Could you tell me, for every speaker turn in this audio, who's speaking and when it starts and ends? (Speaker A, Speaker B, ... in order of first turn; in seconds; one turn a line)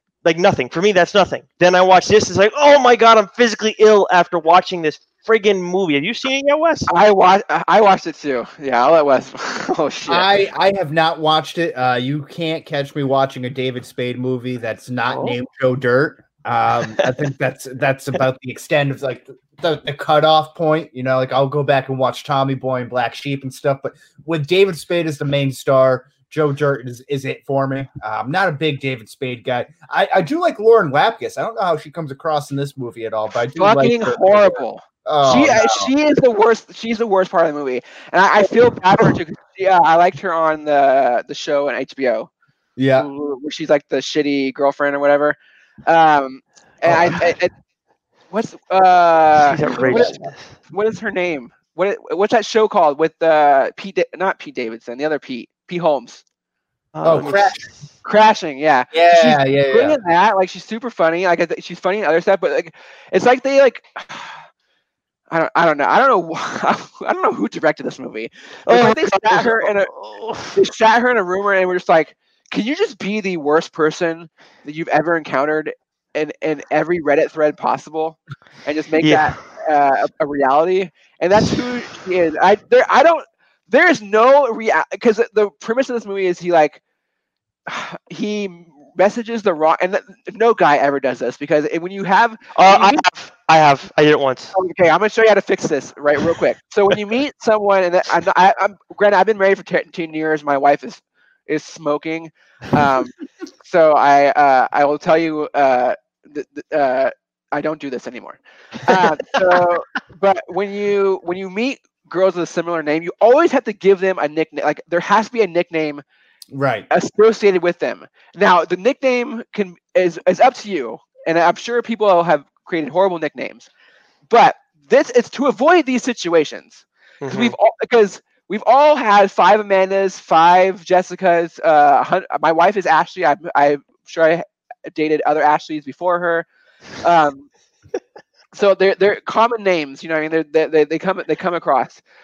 Speaker A: 0.2-6.9
Speaker B: 6.9-10.3
Speaker C: 10.1-35.9
Speaker A: 15.1-15.4
Speaker B: 33.6-42.3
Speaker C: 42.8-43.1
Speaker B: 43.0-47.5
Speaker C: 46.9-47.2
Speaker B: 48.3-56.2
Speaker A: 49.4-50.5
Speaker C: 49.8-50.2
Speaker A: 56.9-57.8
Speaker C: 57.0-57.7
Speaker B: 58.0-64.4
Speaker C: 58.9-60.0
Speaker B: 65.3-69.9
Speaker A: 68.7-70.6
Speaker B: 70.5-86.8
Speaker A: 79.0-79.3
Speaker B: 87.7-93.0
Speaker A: 92.5-94.5
Speaker B: 94.5-116.0
Speaker C: 116.5-116.9
Speaker B: 116.9-123.7
Speaker B: 124.3-136.5
Speaker A: 127.2-127.5
Speaker B: 137.0-137.5
Speaker B: 138.5-142.0